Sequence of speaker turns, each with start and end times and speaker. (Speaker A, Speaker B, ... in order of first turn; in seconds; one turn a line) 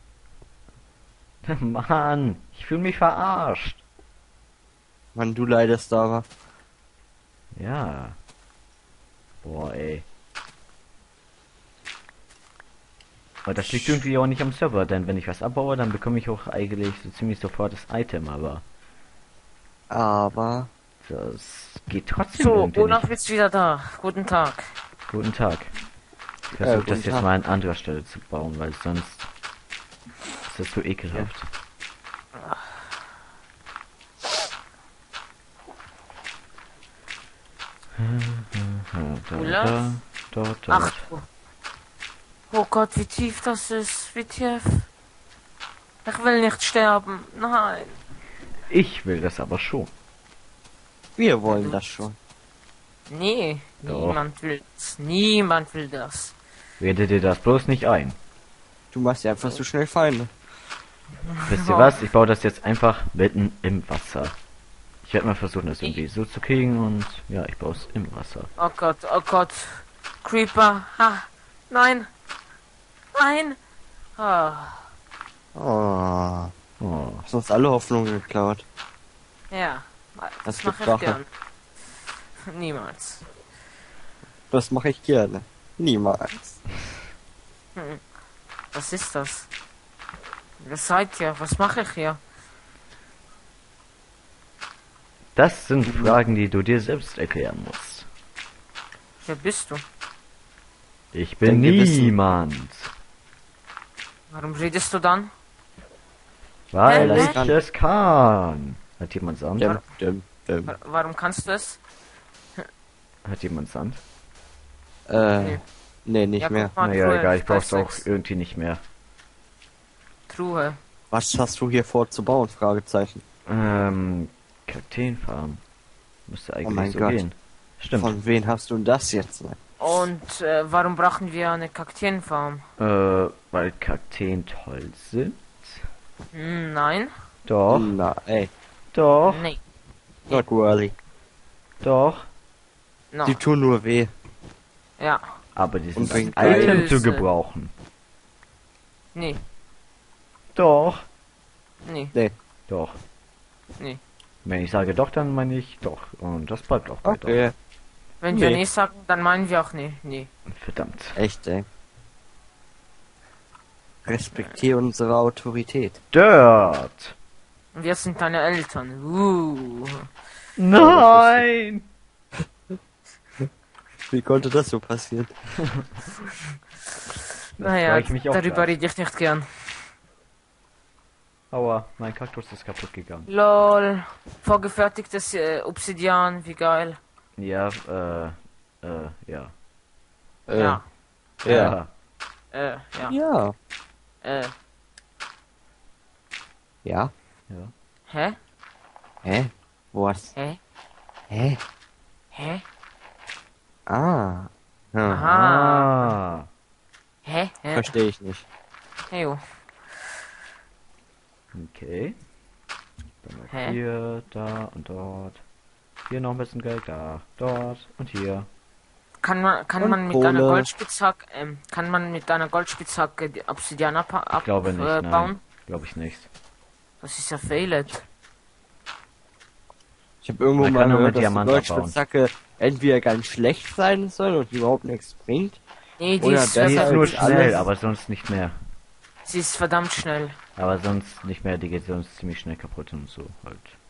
Speaker A: 1.4-3.8
Speaker B: 5.2-6.3
Speaker A: 7.5-8.2
Speaker A: 9.4-10.1
Speaker A: 13.4-18.6
Speaker B: 19.9-20.7
Speaker A: 21.0-23.1
Speaker C: 22.4-24.7
Speaker A: 25.1-25.7
Speaker A: 26.5-29.3
Speaker B: 26.6-27.3
Speaker A: 30.5-31.5
Speaker C: 32.4-32.8
Speaker A: 38.0-41.1
Speaker C: 39.3-40.0
Speaker C: 40.7-41.3
Speaker C: 42.5-44.9
Speaker C: 46.0-48.0
Speaker A: 48.7-49.9
Speaker B: 51.2-52.1
Speaker C: 51.5-51.8
Speaker C: 53.1-56.4
Speaker A: 53.9-54.2
Speaker A: 56.8-58.2
Speaker B: 58.9-60.3
Speaker C: 61.3-61.9
Speaker A: 61.5-64.3
Speaker A: 65.0-68.5
Speaker C: 68.6-72.1
Speaker C: 73.2-73.6
Speaker C: 74.2-74.9
Speaker B: 75.5-76.5
Speaker A: 76.8-77.2
Speaker B: 77.2-78.6
Speaker C: 79.5-81.3
Speaker B: 80.5-81.2
Speaker C: 82.5-83.2
Speaker B: 84.5-86.6
Speaker C: 87.8-88.0
Speaker C: 88.7-89.5
Speaker C: 90.6-92.2
Speaker A: 95.4-98.1
Speaker B: 95.8-96.2
Speaker C: 99.2-99.8
Speaker A: 101.1-102.9
Speaker B: 101.4-102.2
Speaker C: 104.3-105.3
Speaker A: 106.7-109.8
Speaker C: 106.8-107.4
Speaker B: 106.9-107.6
Speaker B: 109.6-110.7
Speaker C: 110.7-111.8
Speaker A: 113.2-114.0
Speaker B: 115.1-116.7
Speaker C: 116.4-118.1
Speaker A: 116.8-118.8
Speaker C: 120.3-120.8
Speaker B: 121.1-123.2
Speaker A: 123.5-125.6
Speaker A: 126.3-128.2
Speaker B: 126.6-127.2
Speaker B: 127.9-129.6
Speaker C: 129.8-132.6
Speaker A: 132.8-135.8
Speaker C: 136.3-137.1
Speaker A: 137.5-137.9
Speaker B: 137.7-138.5
Speaker A: 138.9-139.5
Speaker C: 139.2-139.6
Speaker B: 140.3-140.9
Speaker A: 141.8-142.3
Speaker C: 143.1-143.4
Speaker B: 143.2-144.1
Speaker C: 145.0-145.2
Speaker A: 145.6-147.7
Speaker B: 146.0-146.9
Speaker C: 146.2-147.3
Speaker C: 149.1-149.4
Speaker A: 150.5-151.1
Speaker C: 151.8-152.1
Speaker A: 152.7-153.0
Speaker A: 154.4-157.5
Speaker B: 157.0-157.5
Speaker C: 158.2-160.3
Speaker B: 158.3-158.6
Speaker A: 160.5-161.2
Speaker B: 161.2-161.7
Speaker B: 164.1-166.0
Speaker A: 166.1-167.2
Speaker C: 167.7-170.0
Speaker A: 170.6-171.9
Speaker B: 170.8-171.4
Speaker B: 174.1-175.3
Speaker C: 177.6-179.7
Speaker A: 177.6-178.8
Speaker A: 181.5-183.3
Speaker C: 183.3-187.0
Speaker A: 187.4-189.5
Speaker B: 190.5-190.8
Speaker C: 190.5-190.8
Speaker A: 191.4-191.9
Speaker B: 191.4-191.8
Speaker C: 192.5-193.2
Speaker B: 193.0-193.5
Speaker C: 194.2-194.5
Speaker B: 196.8-197.1
Speaker C: 198.1-198.4
Speaker B: 199.2-200.3
Speaker B: 201.3-201.6
Speaker C: 202.3-202.6
Speaker B: 203.9-205.3
Speaker C: 205.1-206.1
Speaker A: 205.3-206.5
Speaker C: 207.2-207.9
Speaker B: 207.7-208.4
Speaker C: 209.1-209.4
Speaker A: 211.5-212.2
Speaker A: 213.2-215.4
Speaker C: 213.5-213.8
Speaker A: 216.1-218.5
Speaker C: 219.2-225.4
Speaker B: 219.8-220.7
Speaker A: 224.3-226.3
Speaker C: 227.0-228.0
Speaker B: 230.2-235.6
Speaker A: 230.6-232.0
Speaker C: 236.0-237.6
Speaker B: 236.2-237.7
Speaker A: 236.6-238.5
Speaker C: 239.2-240.3
Speaker A: 240.6-243.8